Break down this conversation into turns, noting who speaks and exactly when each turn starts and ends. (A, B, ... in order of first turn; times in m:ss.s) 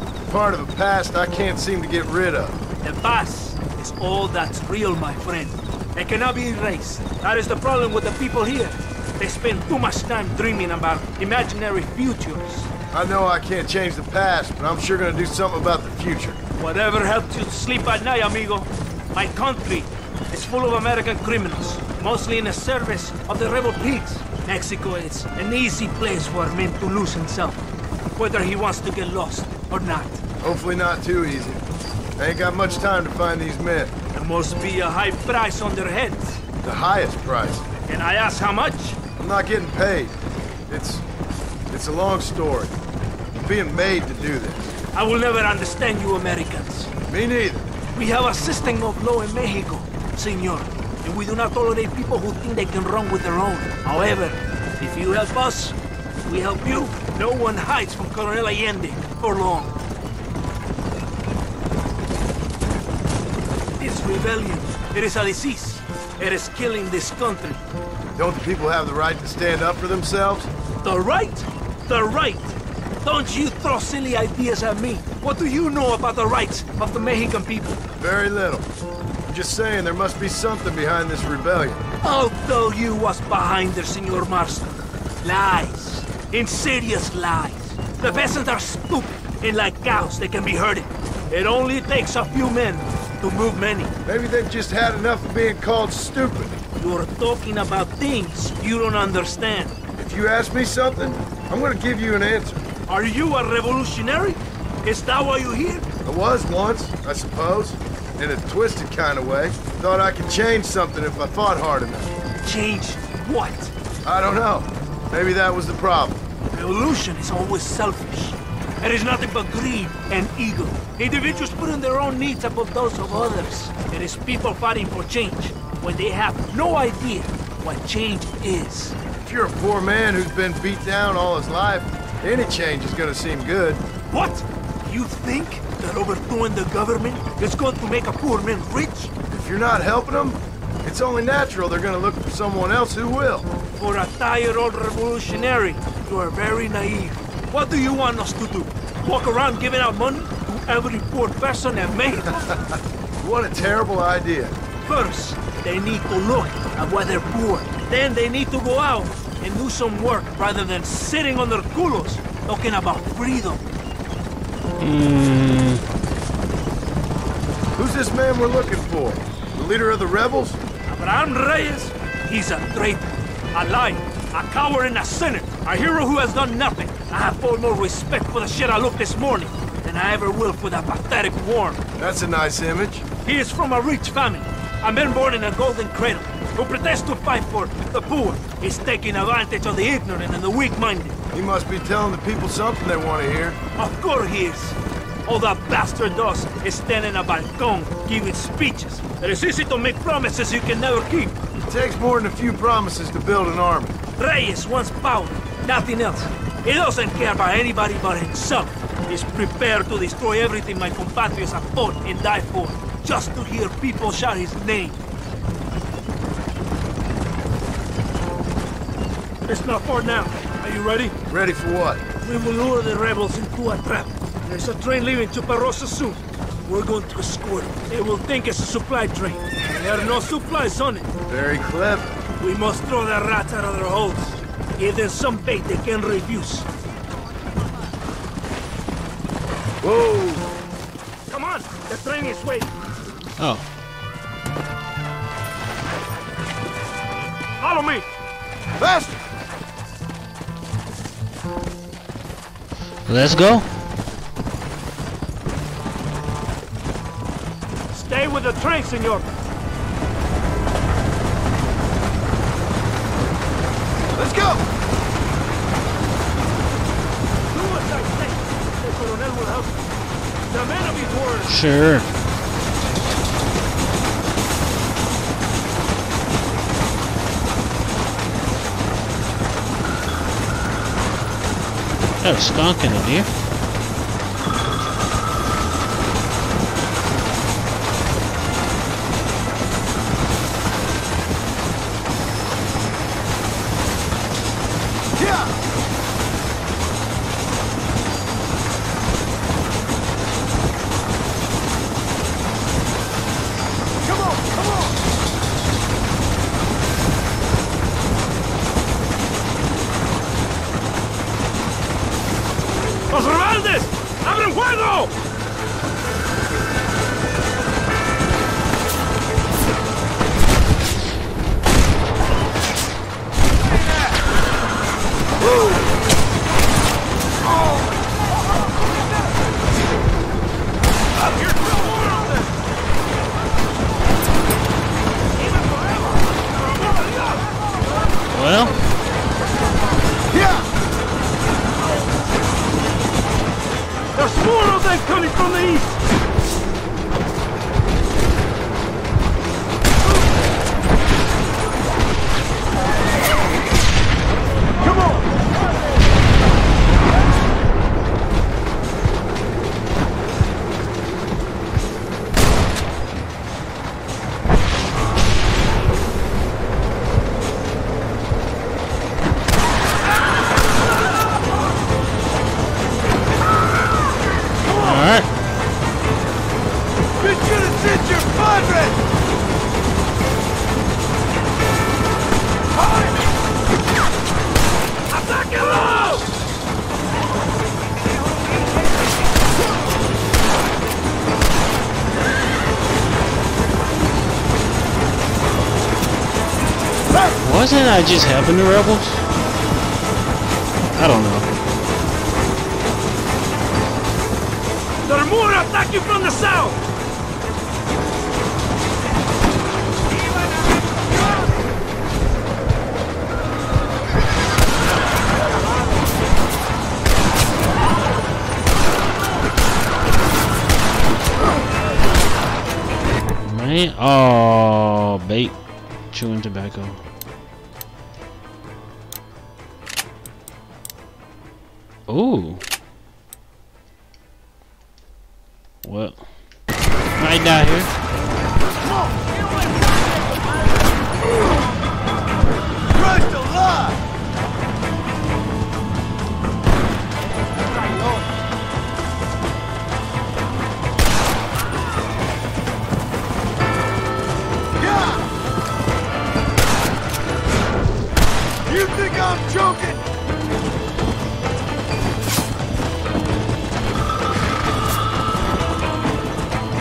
0:00.3-0:02.6 A
0:02.8-0:12.7 B
0:12.9-0:16.4 A
0:16.6-0:30.2 B
0:30.4-0:31.6 A
0:32.2-0:33.9 A
0:34.1-0:36.4 B
0:36.6-0:37.6 A
0:37.8-0:39.0 B
0:39.2-0:40.2 A
0:40.7-0:41.0 A
0:41.7-0:42.8 A
0:43.4-0:44.6 A
0:44.9-0:46.9 B
0:47.1-0:47.7 A
0:47.9-0:59.8 B
1:03.8-1:07.6 B
1:08.2-1:10.5 A
1:10.8-1:17.8 B
1:18.0-1:18.7 A
1:19.3-1:21.8 A
1:22.0-1:33.9 B
1:34.1-1:36.6 A
1:36.8-1:39.8 B
1:40.0-1:42.6 A
1:42.9-1:45.9 B
1:46.0-1:52.2 A
1:52.4-1:53.7 B
1:54.0-1:56.2 A
1:56.5-2:09.0 B
2:09.2-2:13.8 A
2:14.1-2:19.1 B
2:19.3-2:23.5 A
2:23.8-2:32.5 B
2:32.6-2:34.6 A
2:34.8-2:43.6 B
2:44.8-2:45.8 C
2:47.8-2:50.6 A
2:50.9-3:01.8 B
3:02.0-3:03.0 A
3:03.2-3:11.2 B
3:11.3-3:13.6 A
3:13.8-3:21.4 B
3:21.7-3:24.0 A
3:24.2-3:35.0 B
3:39.4-3:41.2 B
3:41.3-3:42.0 A
3:42.2-3:51.1 B
3:51.3-3:52.2 A
3:52.4-3:56.7 B
3:59.8-4:00.4 A
4:01.3-4:02.7 B
4:03.4-4:03.6 C
4:07.6-4:08.0 B
4:08.8-4:09.2 A
4:13.1-4:13.7 C
4:17.9-4:19.3 B
4:24.2-4:24.7 A
4:27.5-4:29.8 B
4:30.5-4:31.5 B
4:31.5-4:32.1 C
4:42.2-4:43.3 C
4:55.2-4:55.5 A
5:04.1-5:04.9 A
5:13.1-5:15.1 B
5:31.2-5:32.5 B
5:35.4-5:37.5 B
5:38.3-5:38.8 C
5:40.3-5:40.7 A
5:44.2-5:45.9 B
6:14.7-6:15.3 C
6:14.7-6:15.0 A
6:17.2-6:19.0 A
6:25.1-6:26.3 B
6:37.4-6:39.2 C
6:41.0-6:41.5 C
6:45.0-6:46.8 B
7:03.4-7:05.6 C
7:06.1-7:07.0 C
7:12.1-7:12.7 C
7:15.8-7:16.3 C
7:17.2-7:17.9 C
7:18.8-7:19.2 A
7:22.9-7:24.0 A
7:34.8-7:35.2 A
7:38.7-7:40.0 A